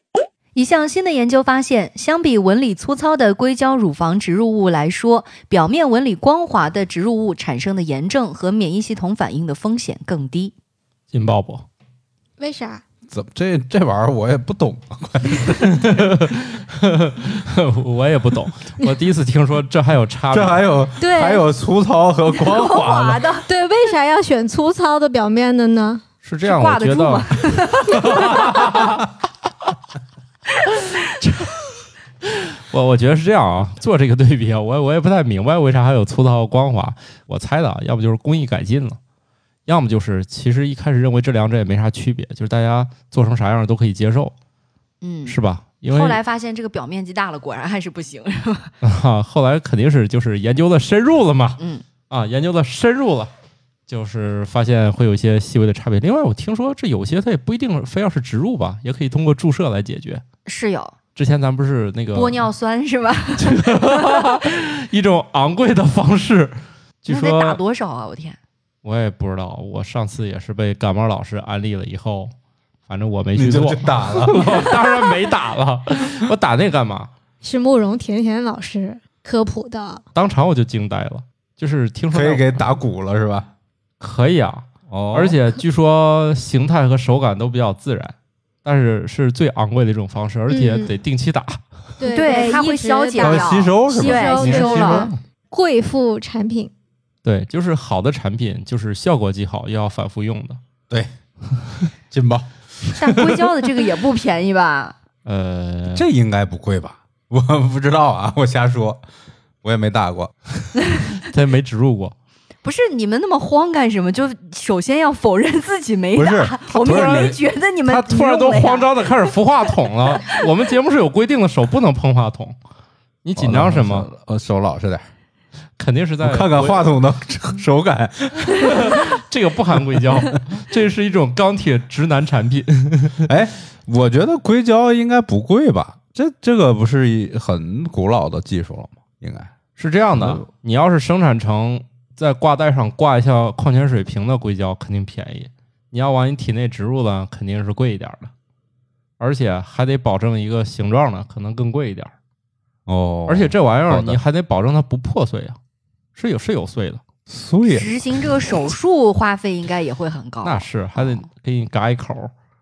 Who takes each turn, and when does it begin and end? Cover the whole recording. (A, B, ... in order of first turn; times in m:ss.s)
0:00.5-0:10.5 A
0:11.1-0:11.6 B
0:12.4-0:12.8 C
0:13.1-0:16.0 D
0:15.6-0:20.6 B
0:20.3-0:23.2 D
0:21.0-0:21.4 A
0:22.3-0:23.4 A
0:23.4-0:26.0 C
0:26.2-0:29.0 B
0:26.4-0:28.8 A
0:32.3-0:39.0 B
0:39.6-0:44.3 B
0:45.0-0:45.4 A
0:45.2-0:46.2 B
0:45.9-0:48.7 A
0:48.8-0:53.3 B
0:51.6-0:51.8 A
0:53.9-1:00.2 B
1:00.4-1:00.9 A
1:01.2-1:02.4 B
1:02.1-1:04.3 A
1:03.4-1:07.6 B
1:07.1-1:08.4 A
1:08.8-1:12.3 B
1:12.9-1:17.1 B
1:13.3-1:14.8 D
1:17.4-1:20.0 C
1:20.1-1:22.6 B
1:22.1-1:23.5 D
1:24.0-1:31.6 B
1:24.9-1:25.4 D
1:30.5-1:30.9 C
1:32.0-1:36.7 C
1:32.1-1:35.1 A
1:33.2-1:35.1 D
1:37.2-1:40.6 B
1:42.1-1:42.5 D
1:43.0-1:44.9 A
1:45.2-1:46.0 B
1:45.9-1:49.0 D
1:49.6-1:50.3 D
1:51.2-1:52.1 B
1:52.6-1:59.3 A
1:56.1-1:57.4 D
1:56.8-1:57.3 B
1:57.8-2:02.6 B
2:03.2-2:04.1 B
2:03.4-2:05.0 D
2:05.8-2:06.9 B
2:06.2-2:09.0 D
2:08.5-2:13.3 B
2:13.2-2:19.5 D
2:19.8-2:28.3 B
2:20.1-2:20.4 D
2:29.2-2:32.1 B
2:32.9-2:34.2 D
2:33.3-2:35.6 B
2:36.1-2:37.0 B
2:37.3-2:38.0 D
2:37.7-2:41.2 A
2:40.4-2:42.3 B